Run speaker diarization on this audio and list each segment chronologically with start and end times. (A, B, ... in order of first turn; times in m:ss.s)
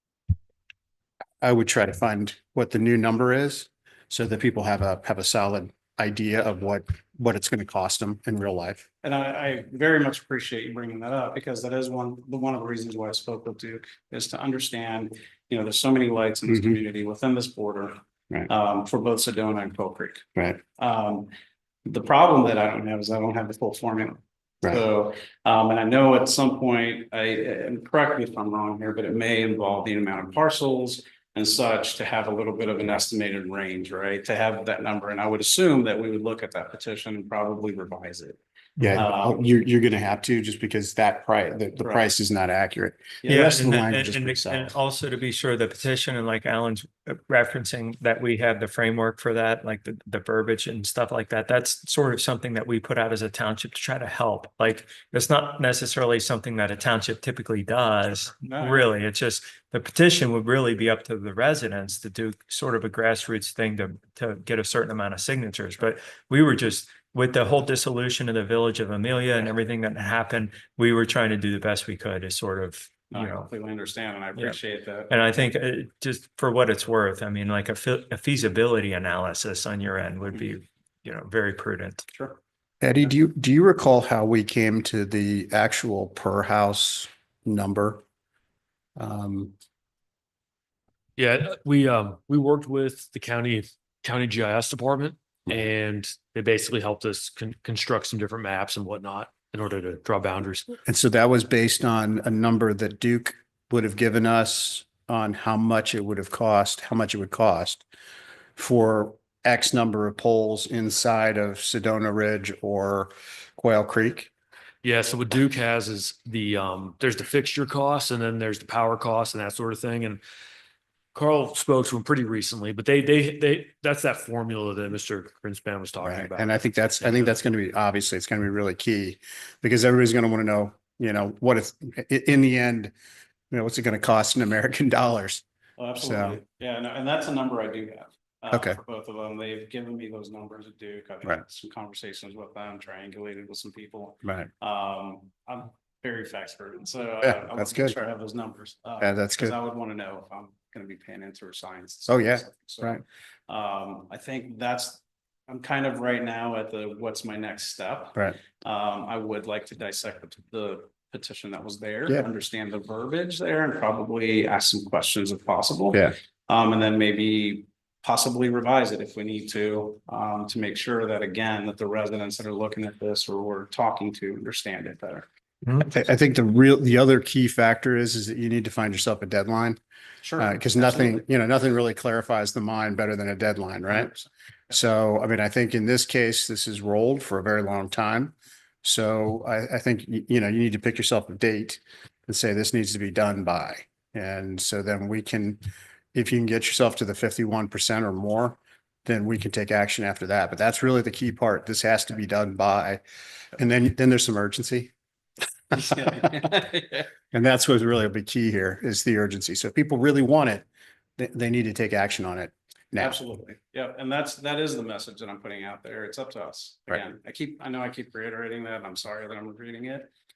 0:01.4-0:08.9 A
0:09.0-0:20.3 B
0:20.8-0:21.3 B
0:21.9-0:38.4 B
0:38.8-0:44.7 A
0:39.0-0:39.4 B
0:41.8-0:42.0 B
0:43.3-1:13.5 C
0:58.4-0:58.9 B
1:13.1-1:15.2 B
1:15.1-1:22.1 C
1:22.8-1:28.0 A
1:29.0-1:29.5 A
1:31.2-1:40.7 D
1:40.9-1:47.8 A
1:48.6-1:54.3 A
1:54.8-2:00.2 D
2:01.1-2:06.5 D
2:06.0-2:12.9 A
2:13.5-2:15.4 A
2:15.8-2:55.3 B
2:16.0-2:16.4 A
2:18.5-2:18.8 A
2:24.2-2:24.5 A
2:27.2-2:28.0 A
2:29.0-2:29.5 A
2:32.1-2:33.0 A
2:55.8-2:59.8 A
3:00.2-3:01.2 B
3:00.4-3:04.1 A
3:03.9-3:04.2 B
3:04.7-3:15.6 A
3:16.1-3:23.0 A
3:23.6-3:24.9 A
3:25.7-3:27.1 B
3:27.3-3:30.6 A
3:31.2-3:33.1 A
3:33.0-3:40.1 B